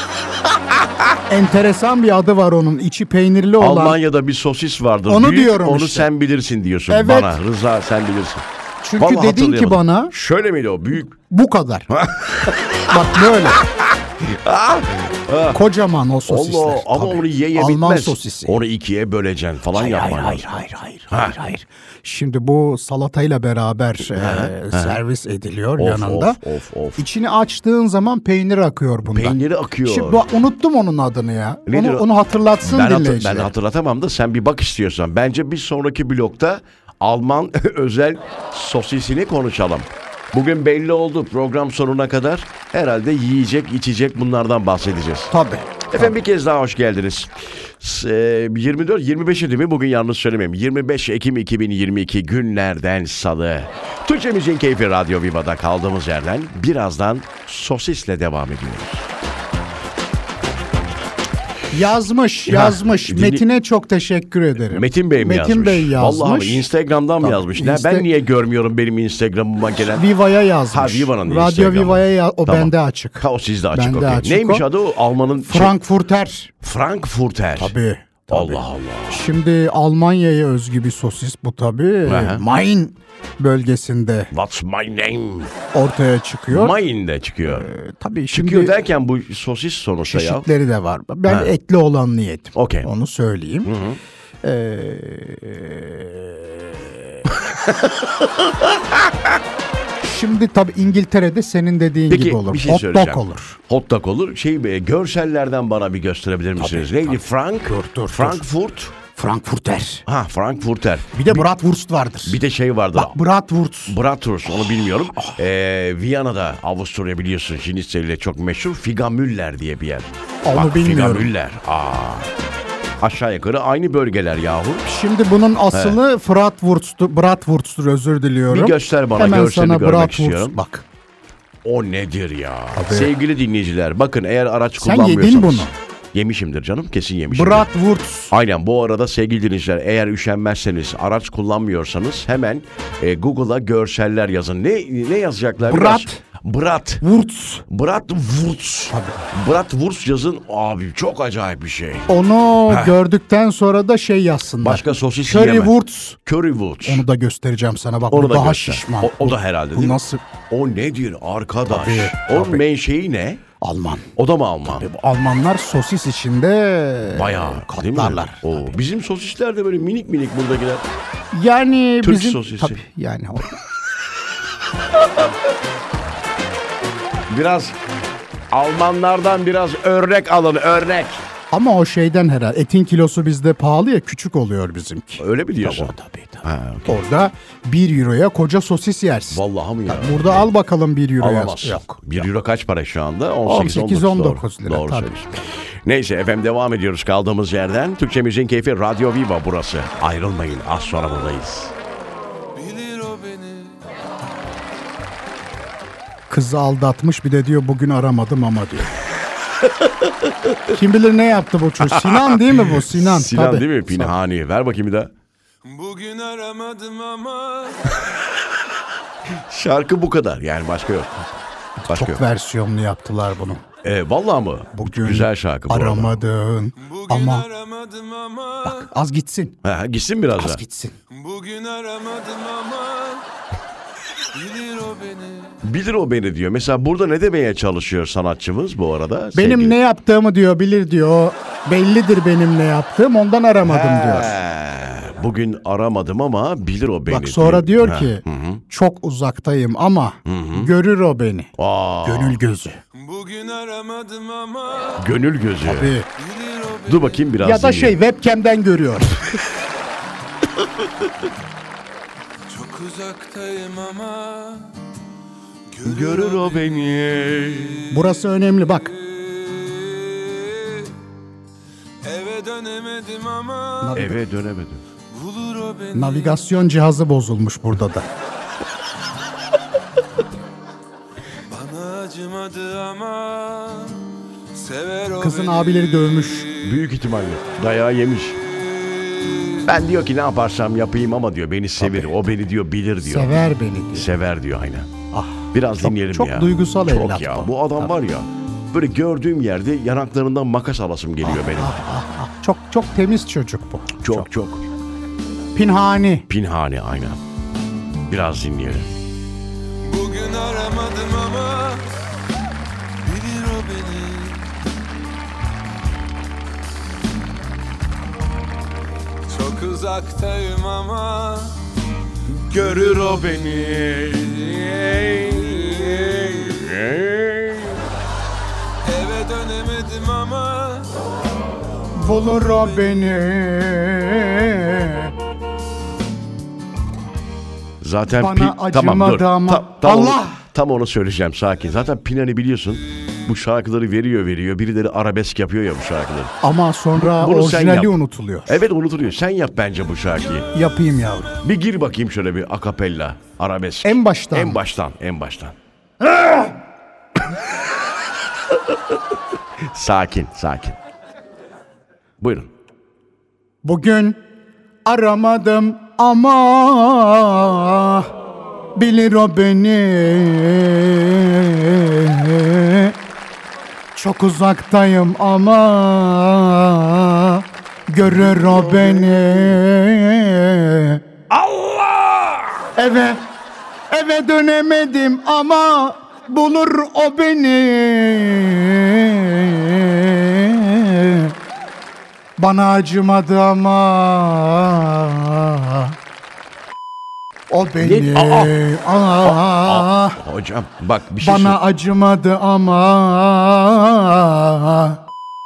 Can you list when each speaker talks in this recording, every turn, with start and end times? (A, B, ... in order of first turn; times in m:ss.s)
0:00.7-0:01.0 A
0:01.3-0:04.0 B
0:03.6-0:08.4 A
0:05.1-0:06.1 B
0:06.9-0:07.4 B
0:08.8-0:10.1 B
0:09.0-0:11.1 A
0:11.1-0:11.9 B
0:11.9-0:15.6 A
0:12.9-0:13.6 B
0:15.5-0:18.6 B
0:16.3-0:20.5 A
0:19.7-0:26.4 B
0:21.1-0:21.5 A
0:24.0-0:25.0 A
0:25.8-0:27.0 A
0:27.0-0:33.5 B
0:29.1-0:30.2 A
0:31.7-0:32.1 A
0:32.6-0:45.3 A
0:45.3-0:46.1 B
0:45.9-0:59.1 A
1:01.7-1:06.7 B
1:02.5-1:03.4 A
1:04.7-1:10.0 A
1:07.2-1:08.1 B
1:09.8-1:14.6 B
1:10.7-1:15.8 A
1:15.5-1:16.5 B
1:16.6-1:17.7 A
1:17.6-1:24.3 B
1:18.3-1:19.3 A
1:22.0-1:22.4 A
1:24.3-1:25.5 A
1:25.7-1:26.8 B
1:26.5-1:27.7 A
1:27.4-1:28.8 B
1:28.3-1:30.4 A
1:30.0-1:33.7 B
1:31.3-1:31.5 A
1:32.5-1:32.9 A
1:33.6-1:34.0 A
1:34.4-1:37.2 B
1:37.7-1:39.3 A
1:40.0-1:43.6 B
1:42.1-1:48.9 A
1:46.6-1:47.2 B
1:47.7-1:48.4 B
1:49.1-1:50.0 B
1:50.1-1:51.5 A
1:51.1-1:52.4 B
1:52.2-1:53.2 A
1:52.9-1:54.0 B
1:53.9-2:02.3 A
2:00.4-2:01.3 B
2:03.0-2:04.9 A
2:04.9-2:10.8 B
2:05.7-2:06.0 A
2:08.5-2:10.6 A
2:11.6-2:17.7 A
2:12.7-2:13.1 B
2:14.8-2:15.7 B
2:17.3-2:18.3 B
2:18.3-2:27.0 A
2:25.6-2:26.2 B
2:27.0-2:27.6 B
2:27.7-2:32.1 A
2:28.9-2:29.2 B
2:32.1-2:36.2 B
2:32.7-2:33.0 A
2:34.6-2:37.0 A
2:36.8-2:40.2 B
2:38.1-2:43.4 A
2:41.7-2:42.6 B
2:43.6-2:44.1 B
2:44.2-2:44.8 A
2:44.6-2:48.7 B
2:47.1-2:50.8 A
2:51.3-2:53.6 B
2:52.0-2:52.8 A
2:57.3-2:57.8 A
2:58.5-3:01.2 A
3:01.5-3:12.2 B
3:05.2-3:06.9 A
3:09.3-3:10.5 A
3:11.2-3:21.7 A
3:13.4-3:15.1 B
3:22.5-3:23.8 C
3:26.3-3:28.9 B
3:29.6-3:30.7 A
3:30.7-3:34.1 B
3:31.8-3:35.1 A
3:35.6-3:37.9 C
3:39.3-3:41.3 A
3:41.8-3:43.6 B
3:41.9-3:42.2 A
3:43.8-3:46.2 A
3:44.7-3:47.4 B
3:46.8-3:48.9 C
3:48.6-3:49.6 B
3:49.6-3:50.6 A
3:50.4-3:51.0 B
3:51.1-3:53.2 C
3:54.3-3:55.6 C
3:55.6-3:59.8 A
3:59.3-4:04.4 B
4:03.6-4:08.6 A
4:07.1-4:11.5 B
4:10.2-4:10.7 A
4:11.6-4:12.4 A
4:12.0-4:12.8 B
4:12.9-4:15.0 C
4:15.0-4:16.0 A
4:15.6-4:16.1 B
4:16.2-4:17.2 C
4:16.8-4:18.0 A
4:17.4-4:19.2 B
4:22.5-4:24.8 C
4:25.7-4:26.8 C
4:25.8-4:27.9 A
4:27.9-4:28.9 B
4:28.7-4:30.9 C
4:32.0-4:34.1 C
4:33.8-4:34.2 B
4:33.9-4:34.8 A
4:35.1-4:36.4 C
4:35.9-4:38.1 B
4:41.5-4:46.8 C
4:45.2-4:46.5 B
4:46.6-4:48.4 A
4:48.6-4:49.7 C
4:49.6-4:53.4 A
4:51.8-4:52.1 B
4:53.0-4:54.1 B
4:53.9-4:54.9 A
4:55.1-4:57.5 B
4:55.5-5:01.8 A
5:01.2-5:04.3 B
5:04.0-5:04.6 A
5:05.5-5:06.3 B
5:06.3-5:07.2 A
5:08.1-5:08.9 A
5:09.8-5:11.9 C
5:13.0-5:14.5 C
5:19.3-5:21.6 C
5:22.5-5:23.6 C
5:22.5-5:27.8 A
5:25.5-5:26.1 C
5:28.8-5:30.9 C
5:32.0-5:35.1 B
5:37.8-5:46.3 A
5:38.1-5:40.4 B
5:46.4-5:48.6 B
5:47.0-5:48.0 A
5:48.5-5:50.5 A
5:50.5-5:51.3 B
5:51.4-5:55.5 A
5:53.8-5:54.6 B
5:59.6-6:00.8 A
6:02.2-6:02.5 A
6:03.6-6:04.2 B
6:04.8-6:08.1 B
6:08.7-6:12.9 B
6:13.9-6:21.0 B
6:18.0-6:19.6 A
6:21.3-6:22.6 A
6:22.8-6:23.2 B
6:23.9-6:31.3 B
6:32.4-6:36.0 B
6:37.5-6:40.2 B
6:37.8-6:38.6 A
6:39.2-6:41.6 A
6:41.2-6:45.0 B